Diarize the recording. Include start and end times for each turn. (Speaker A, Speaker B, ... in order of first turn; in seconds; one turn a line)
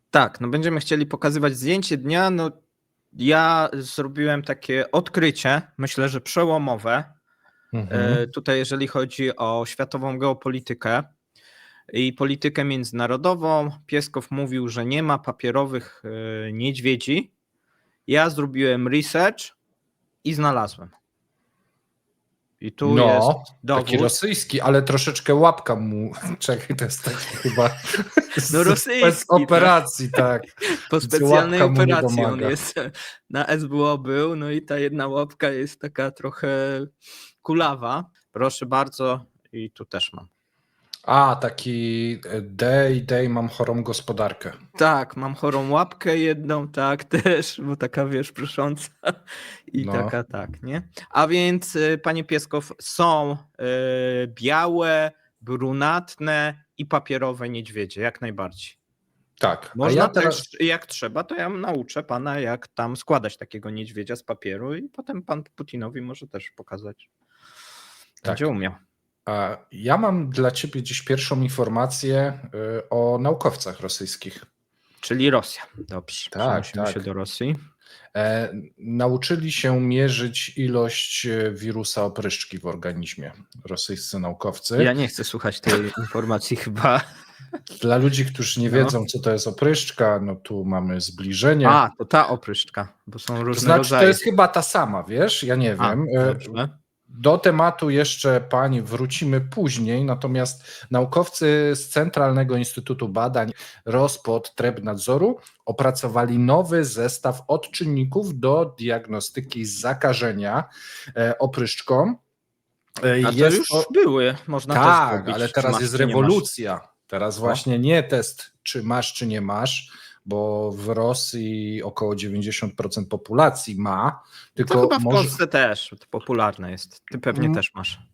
Speaker A: 0.1-2.5
Speaker A: 3.1-7.1
Speaker B: 7.7-8.2
Speaker A: 7.9-11.1
Speaker A: 11.9-17.3
Speaker A: 18.1-19.6
Speaker A: 20.2-20.9
Speaker A: 22.6-24.2
Speaker B: 22.8-30.5
Speaker A: 28.5-29.8
Speaker A: 30.9-36.9
Speaker B: 31.0-32.6
Speaker A: 37.4-40.3
Speaker B: 41.1-44.6
Speaker A: 44.8-49.1
Speaker A: 49.7-58.8
Speaker B: 49.8-50.1
Speaker B: 59.4-60.4
Speaker A: 59.8-67.1
Speaker A: 68.2-68.8
Speaker B: 69.3-74.5
Speaker A: 75.0-77.6
Speaker B: 76.3-77.0
Speaker B: 78.2-84.9
Speaker A: 84.8-87.0
Speaker B: 87.7-91.8
Speaker A: 88.7-89.0
Speaker A: 91.6-94.2
Speaker B: 93.5-96.6
Speaker A: 95.8-96.7
Speaker B: 97.1-112.2
Speaker B: 113.0-113.9
Speaker A: 113.2-116.5
Speaker B: 114.7-125.4
Speaker A: 124.6-128.0
Speaker B: 127.3-127.6